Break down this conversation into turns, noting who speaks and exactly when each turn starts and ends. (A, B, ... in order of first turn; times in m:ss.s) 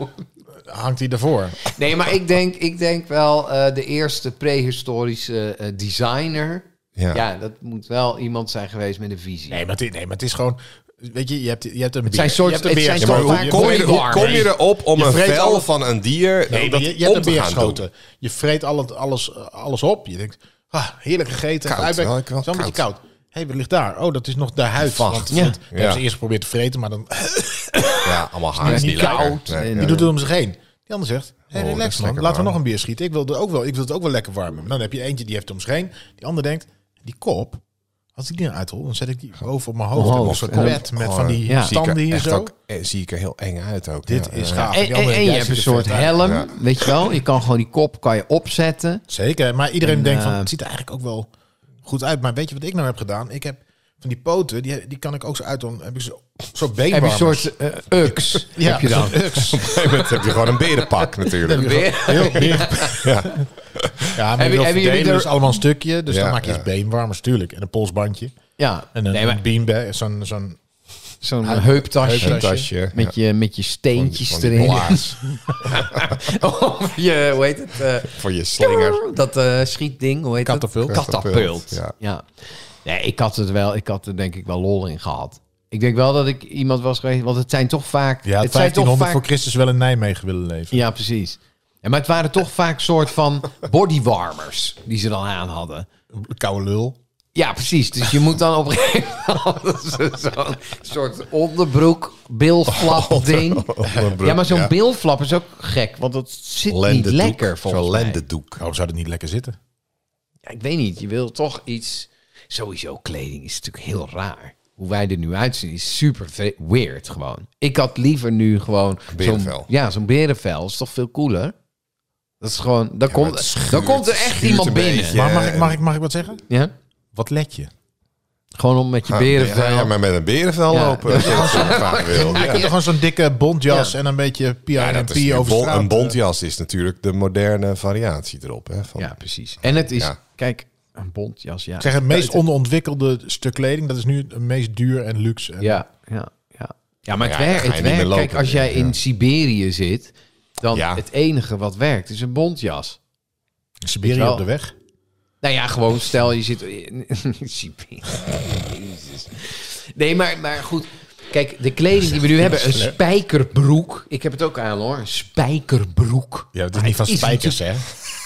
0:00.6-0:01.7 A
0:01.7-0:09.6 B
0:07.0-0:07.2 C
0:09.5-0:15.7 A
0:12.1-0:14.5 B
0:13.0-0:17.8 C
0:16.5-0:37.6 A
0:21.6-0:22.8 C
0:24.8-0:26.0 C
0:25.3-0:25.6 B
0:28.0-0:30.0 C
0:28.6-0:30.1 B
0:31.5-0:32.5 C
0:38.2-0:42.5 A
0:39.9-0:40.8 B
0:40.0-0:44.7 C
0:41.4-0:41.7 B
0:44.0-0:46.2 A
0:44.6-0:49.0 B
0:46.2-0:46.5 C
0:49.1-0:51.3 A
0:49.8-0:50.5 B
0:51.8-0:57.5 A
0:56.9-1:03.1 B
0:58.5-0:59.7 A
0:59.4-1:04.1 C
1:01.4-1:03.3 A
1:04.1-1:08.3 A
1:04.4-1:05.5 B
1:06.1-1:06.6 C
1:08.6-1:09.4 B
1:08.9-1:10.6 A
1:11.2-1:29.2 B
1:11.4-1:12.7 A
1:12.2-1:13.1 C
1:13.9-1:16.1 C
1:18.0-1:19.0 C
1:20.4-1:21.0 A
1:20.9-1:21.9 C
1:28.2-1:30.8 A
1:30.7-1:35.9 B
1:36.1-1:37.0 A
1:37.3-1:48.2 B
1:42.7-1:44.7 C
1:46.7-1:48.6 C
1:48.6-1:49.6 A
1:50.4-2:01.5 B
1:59.1-1:59.7 C
2:02.4-2:05.2 B
2:03.1-2:05.8 C
2:05.1-2:06.4 A
2:07.1-2:07.7 A
2:08.6-2:09.9 B
2:09.1-2:12.7 C
2:10.7-2:12.7 B
2:11.1-2:16.2 A
2:14.8-2:19.2 C
2:19.0-2:22.4 B
2:19.8-2:20.1 C
2:21.8-2:25.8 A
2:25.6-2:33.0 B
2:27.2-2:28.9 C
2:30.7-2:31.0 C
2:33.8-2:34.7 A
2:34.0-2:34.4 B
2:35.4-2:47.6 B
2:42.4-2:42.9 A
2:46.5-2:47.8 A